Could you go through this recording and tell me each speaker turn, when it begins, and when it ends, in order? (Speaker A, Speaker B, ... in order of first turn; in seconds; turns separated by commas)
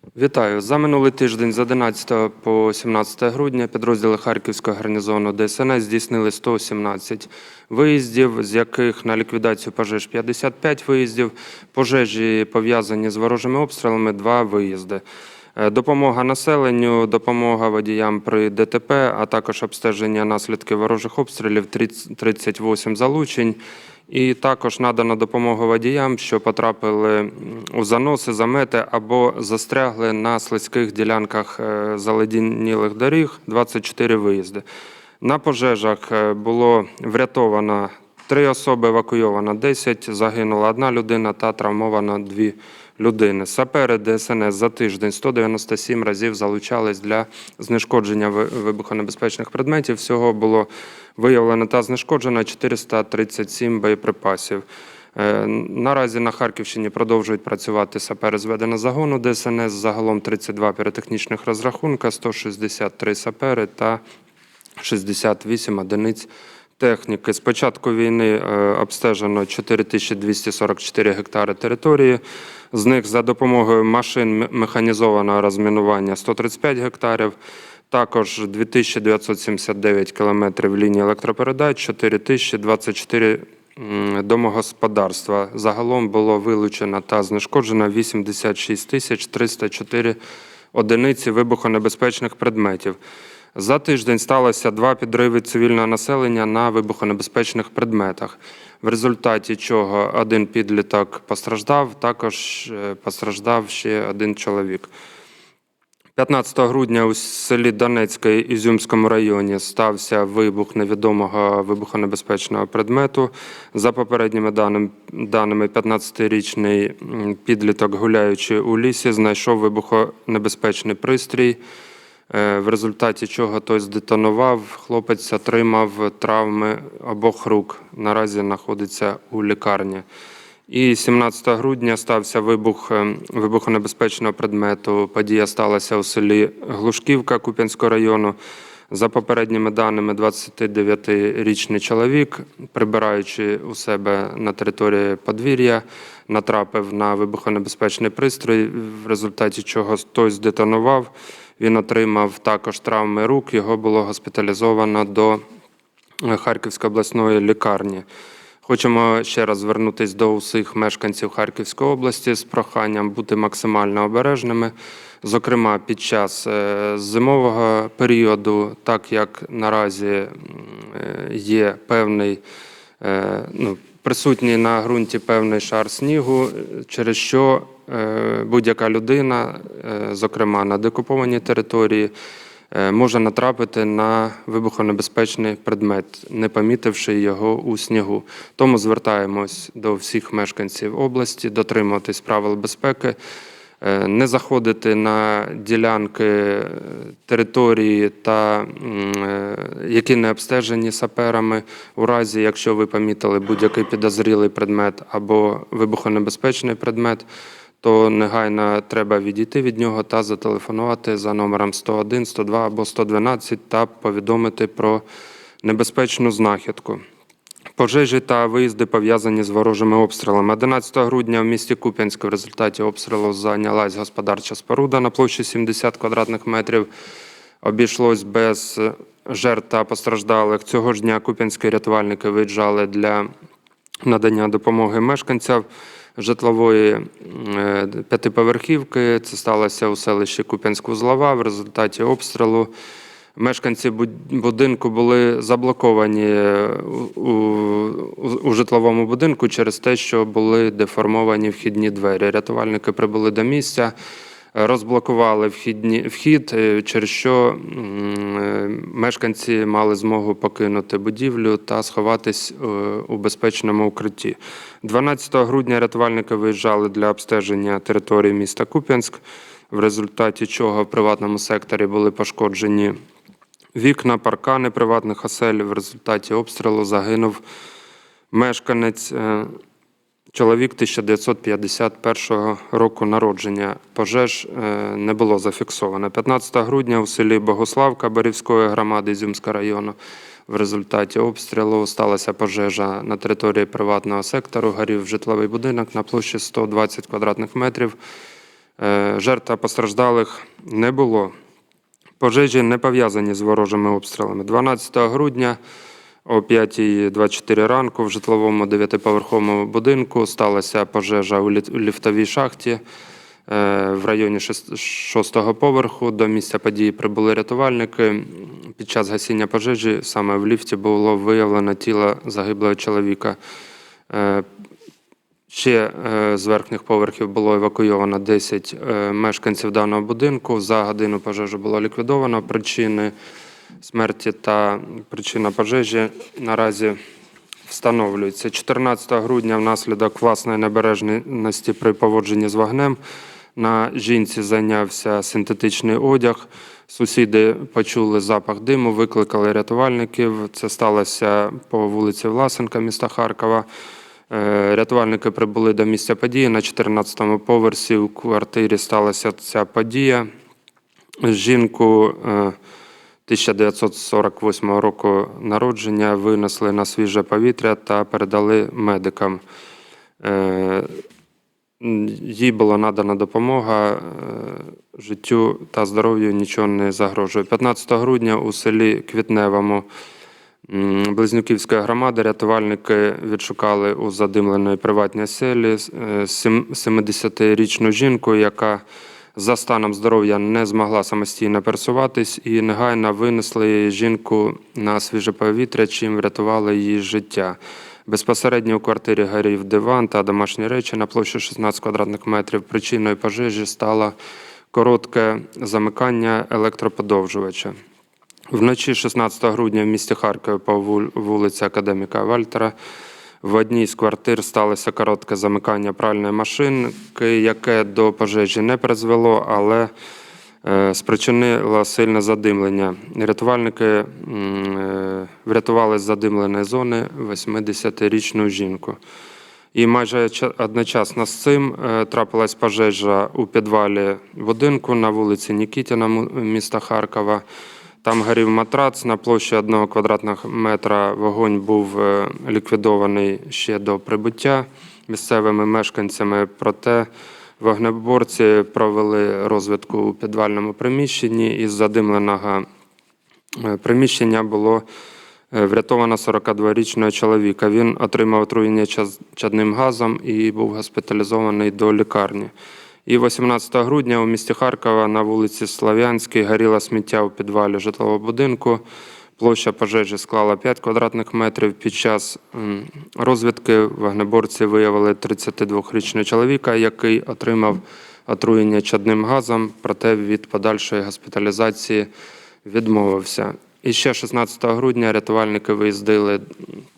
Speaker A: 0.2-15.0, Speaker A: 15.6-34.6, Speaker A: 35.2-54.6, Speaker A: 55.1-64.0, Speaker A: 64.8-66.3, Speaker A: 66.8-72.2, Speaker A: 72.7-77.3, Speaker A: 77.9-90.2, Speaker A: 90.7-93.0, Speaker A: 93.5-104.9, Speaker A: 106.2-121.6, Speaker A: 122.3-130.1, Speaker A: 130.7-138.4, Speaker A: 138.9-155.4, Speaker A: 156.2-158.1, Speaker A: 158.7-172.4, Speaker A: 173.0-182.1, Speaker A: 182.7-193.2, Speaker A: 193.8-207.2, Speaker A: 207.8-215.0, Speaker A: 215.6-217.0, Speaker A: 217.8-226.9, Speaker A: 227.6-233.3, Speaker A: 234.0-235.6, Speaker A: 236.2-242.7, Speaker A: 243.4-253.9, Speaker A: 254.6-272.9, Speaker A: 273.8-277.4, Speaker A: 278.3-279.5, Speaker A: 280.3-289.9, Speaker A: 290.5-298.0, Speaker A: 298.8-301.3, Speaker A: 302.2-305.6, Speaker A: 306.3-312.8, Speaker A: 313.5-323.4, Speaker A: 324.1-324.5, Speaker A: 325.5-333.1, Speaker A: 333.8-337.0, Speaker A: 337.7-343.0, Speaker A: 343.6-353.7, Speaker A: 354.3-360.3, Speaker A: 361.2-362.6, Speaker A: 363.3-369.4, Speaker A: 370.2-370.9, Speaker A: 371.8-379.9, Speaker A: 380.7-388.8, Speaker A: 389.4-404.1, Speaker A: 404.7-407.8, Speaker A: 408.5-412.7, Speaker A: 413.4-419.9, Speaker A: 420.6-429.0, Speaker A: 429.7-437.4, Speaker A: 438.0-447.1, Speaker A: 447.6-452.6, Speaker A: 453.6-454.8, Speaker A: 455.5-462.5, Speaker A: 463.1-468.8, Speaker A: 469.4-482.1, Speaker A: 482.6-486.4